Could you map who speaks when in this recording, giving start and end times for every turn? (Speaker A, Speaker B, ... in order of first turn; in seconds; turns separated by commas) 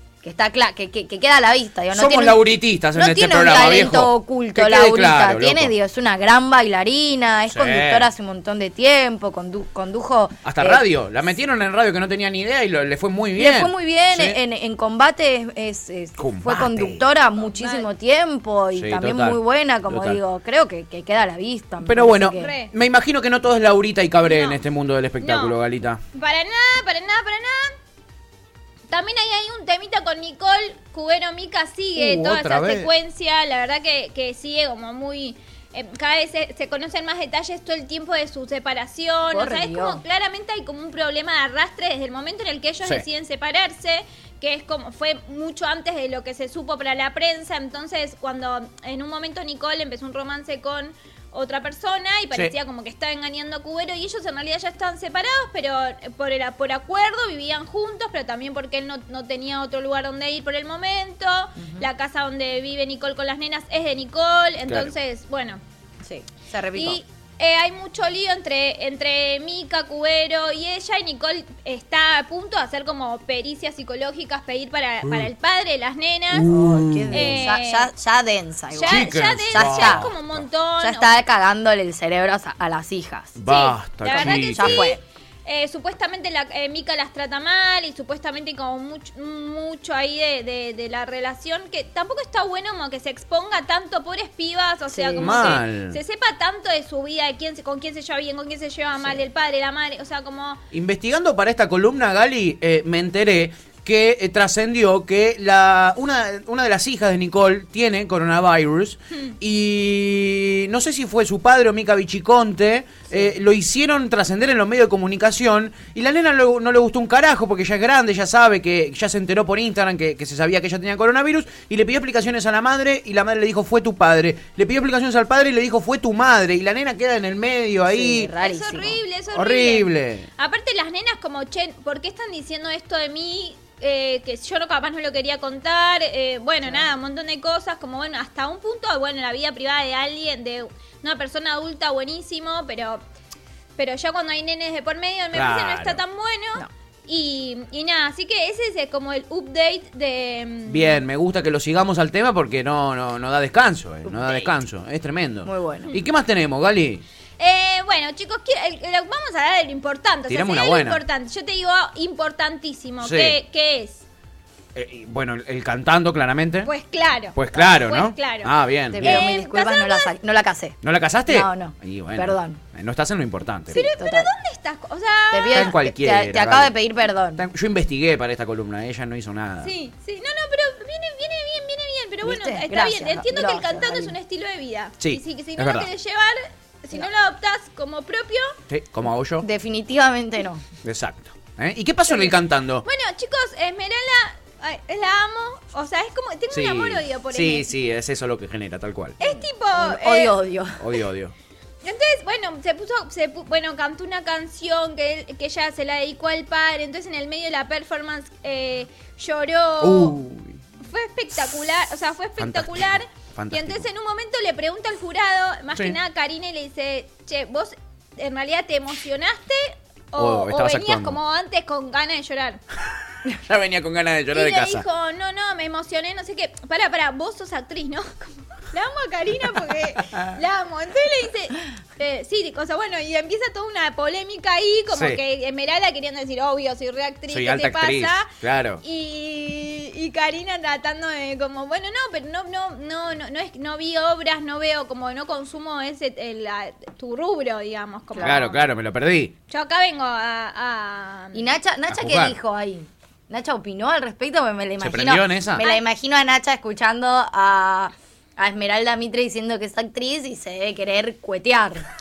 Speaker A: 0.2-2.4, Speaker B: 1.9-5.7, Speaker A: 2.9-10.8, Speaker B: 7.5-8.1, Speaker B: 10.4-14.4, Speaker A: 13.4-22.5, Speaker B: 16.2-17.1, Speaker C: 17.4-17.9, Speaker B: 18.7-20.2, Speaker B: 21.8-26.0, Speaker C: 22.3-22.7, Speaker C: 24.2-24.6, Speaker C: 25.2-25.6, Speaker C: 26.1-27.8, Speaker C: 28.9-65.6, Speaker B: 32.0-32.9, Speaker A: 39.3-40.0, Speaker A: 61.6-61.9, Speaker A: 66.0-67.0, Speaker C: 66.8-76.5, Speaker B: 75.0-75.3, Speaker B: 76.3-77.4, Speaker A: 76.5-80.1, Speaker C: 77.1-77.9, Speaker C: 78.7-81.2, Speaker B: 78.9-80.5, Speaker A: 80.8-83.3, Speaker B: 83.4-84.9, Speaker C: 83.4-100.6, Speaker A: 84.1-85.0, Speaker A: 94.9-95.6, Speaker B: 95.2-96.0, Speaker B: 100.7-128.3, Speaker A: 127.9-129.0, Speaker C: 128.4-143.0, Speaker B: 129.3-130.3, Speaker C: 143.8-151.0, Speaker B: 145.3-146.0, Speaker B: 150.7-157.0, Speaker A: 154.1-154.5, Speaker A: 155.4-155.9, Speaker C: 157.4-164.0, Speaker B: 160.3-161.0, Speaker B: 163.0-163.4, Speaker B: 164.8-166.7, Speaker C: 166.7-170.1, Speaker B: 167.3-169.3, Speaker A: 168.9-172.6, Speaker B: 170.8-173.8, Speaker C: 173.7-175.7, Speaker A: 173.8-174.3, Speaker A: 175.3-177.4, Speaker B: 175.5-176.8, Speaker B: 177.4-179.7, Speaker C: 179.6-188.6, Speaker A: 182.2-184.2, Speaker B: 185.0-185.9, Speaker B: 188.7-189.5, Speaker A: 189.4-190.7, Speaker B: 190.8-192.9, Speaker C: 192.8-197.8, Speaker B: 196.5-199.2, Speaker C: 199.2-200.4, Speaker A: 199.2-201.0, Speaker B: 200.8-201.3, Speaker C: 201.8-210.2, Speaker B: 209.8-210.6, Speaker C: 210.8-222.6, Speaker B: 212.4-213.9, Speaker B: 220.2-221.2, Speaker B: 223.3-224.8, Speaker C: 224.3-238.3, Speaker B: 230.1-230.4, Speaker B: 234.9-235.2, Speaker B: 237.3-238.8, Speaker C: 238.8-248.6, Speaker A: 248.1-248.5, Speaker B: 248.2-249.3, Speaker C: 249.5-251.5, Speaker A: 251.3-261.9, Speaker B: 251.9-252.3, Speaker B: 254.8-255.7, Speaker C: 255.6-255.8